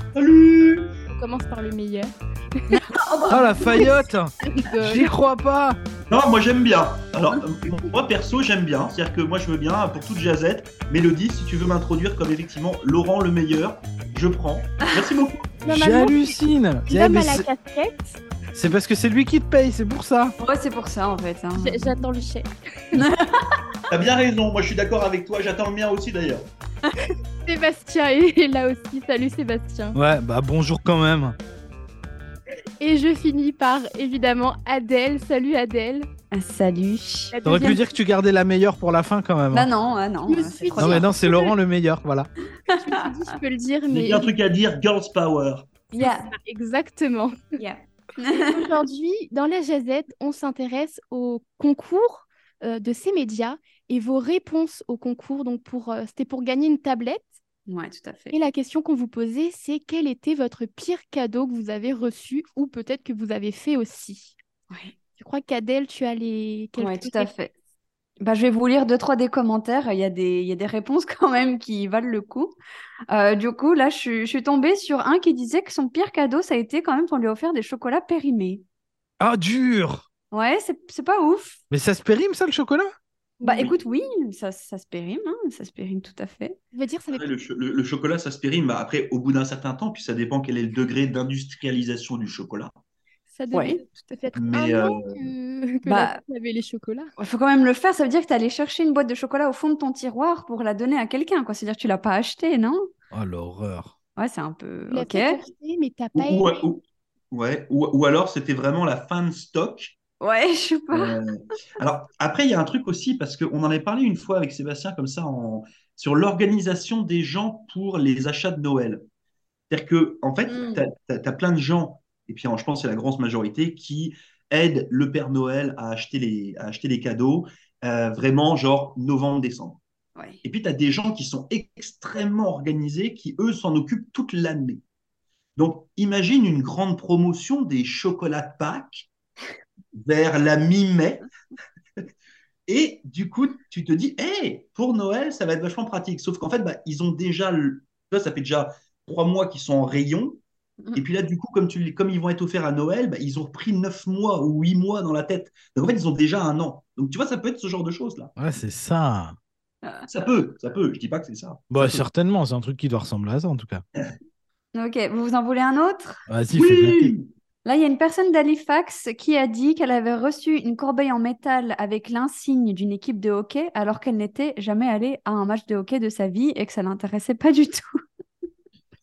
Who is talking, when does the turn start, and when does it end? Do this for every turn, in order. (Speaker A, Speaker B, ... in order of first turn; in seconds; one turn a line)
Speaker A: 0.1-0.9
Speaker B: 1.1-2.1
Speaker C: 2.7-3.9
Speaker D: 3.3-5.8
Speaker B: 4.4-5.1
Speaker A: 6.1-15.5
Speaker B: 15.6-18.0
Speaker D: 15.7-17.4
Speaker D: 18.5-20.4
Speaker C: 20.4-22.0
Speaker B: 21.6-22.5
Speaker C: 22.9-23.4
Speaker A: 23.9-26.5
Speaker B: 27.4-30.0
Speaker D: 29.9-31.4
Speaker B: 32.8-36.1
Speaker C: 36.3-37.8
Speaker B: 37.3-37.8
Speaker D: 37.5-39.7
Speaker C: 39.5-41.1
Speaker B: 40.3-41.3
Speaker D: 40.8-42.3
Speaker B: 42.7-44.3
Speaker A: 43.9-45.7
Speaker B: 45.9-47.3
Speaker C: 46.0-46.3
Speaker C: 47.6-48.6
Speaker B: 48.5-57.3
Speaker C: 57.7-58.4
Speaker B: 58.3-64.3
Speaker B: 65.2-67.3
Speaker C: 66.8-67.5
Speaker C: 68.2-72.6
Speaker C: 73.1-78.6
Speaker D: 79.2-80.0
Speaker C: 80.3-81.6
Speaker D: 81.7-82.9
Speaker B: 83.4-83.7
Speaker C: 83.4-86.6
Speaker B: 86.7-87.3
Speaker A: 87.1-92.7
Speaker B: 93.3-97.1
Speaker C: 93.5-94.2
Speaker A: 94.3-95.3
Speaker C: 95.8-96.2
Speaker C: 97.2-102.8
Speaker D: 103.1-103.9
Speaker C: 104.2-105.4
Speaker B: 104.9-106.7
Speaker A: 106.2-110.0
Speaker C: 110.2-111.2
Speaker A: 110.9-119.0
Speaker A: 119.7-129.8
Speaker C: 120.5-120.8
Speaker C: 130.2-130.4
Speaker A: 130.4-134.8
Speaker A: 135.6-139.1
Speaker A: 140.0-141.3
Speaker A: 142.7-150.4
Speaker A: 151.0-158.3
Speaker D: 158.4-159.4
Speaker A: 160.1-162.1
Speaker D: 161.7-163.8
Speaker C: 164.8-166.2
Speaker D: 166.3-167.1
Speaker A: 166.5-167.3
Speaker C: 167.7-177.9